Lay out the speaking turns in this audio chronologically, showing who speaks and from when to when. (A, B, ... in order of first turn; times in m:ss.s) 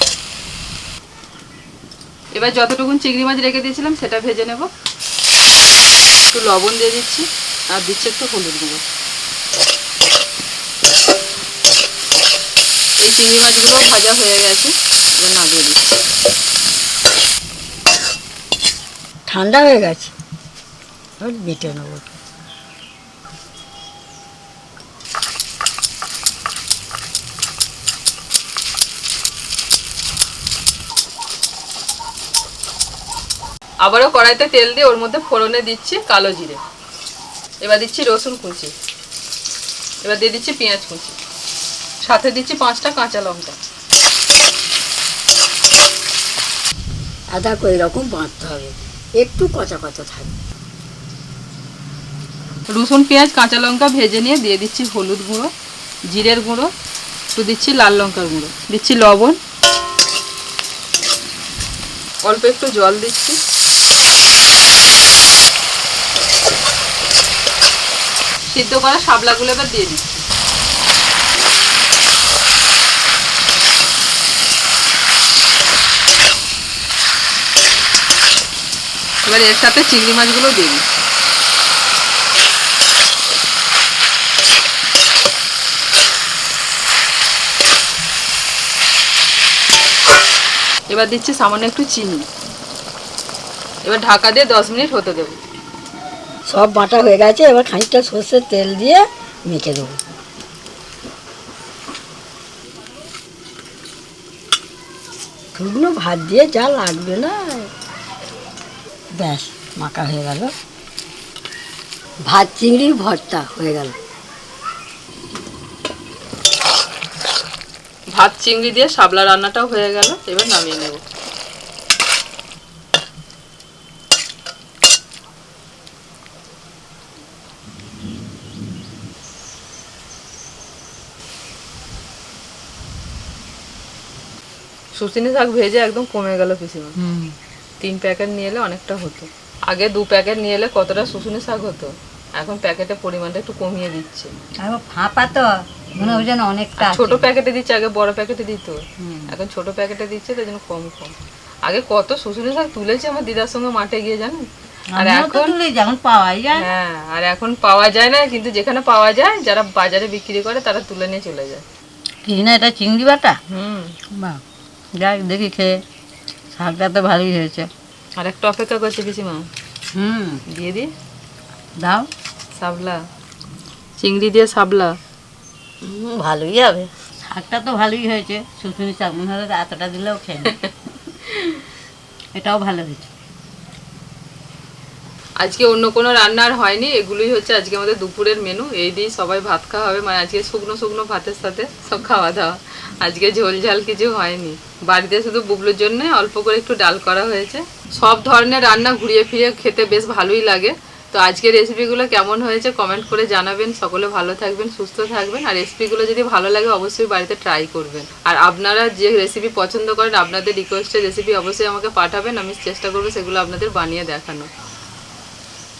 0:02.3-0:04.7 A
0:06.3-0:08.8 A
0:13.0-0:16.0 A
0:19.3-0:20.1 B
0:21.2-0:22.2 B
0:33.8-0:36.6 A
0:37.6-0:38.7 A
0:40.0-0:41.1 A
0:42.0-0:43.6 A
0:47.3-0:50.3 B
0:52.7-0:55.5 A
0:56.1-0:56.7 A
0:57.3-0:59.4 A
1:02.2-1:03.4 A
1:08.5-1:10.2 A
1:19.2-1:20.8 A
1:30.9-1:32.2 A
1:33.8-1:35.4 A
1:36.5-1:40.0 B
1:45.6-1:47.7 B
1:49.2-1:50.5 B
1:52.3-1:53.9 B
1:58.1-2:01.0 A
2:14.9-2:17.0 A
2:17.0-2:17.3 C
2:17.8-2:24.3 A
2:24.6-2:27.2 C
2:25.9-2:26.3 A
2:26.8-2:31.1 A
2:29.0-2:29.3 C
2:31.6-2:34.4 A
2:34.9-2:36.6 C
2:35.0-2:35.6 A
2:36.5-2:41.6 A
2:42.2-2:43.4 C
2:43.5-2:43.9 A
2:44.1-2:44.4 C
2:45.0-2:45.8 C
2:46.6-2:47.7 C
2:48.2-2:49.4 A
2:49.9-2:50.4 C
2:50.5-2:50.9 A
2:51.8-2:52.1 C
2:52.6-2:53.0 A
2:54.0-2:55.0 A
2:55.8-3:00.5 C
3:02.3-3:03.1 C
3:05.4-3:34.5 A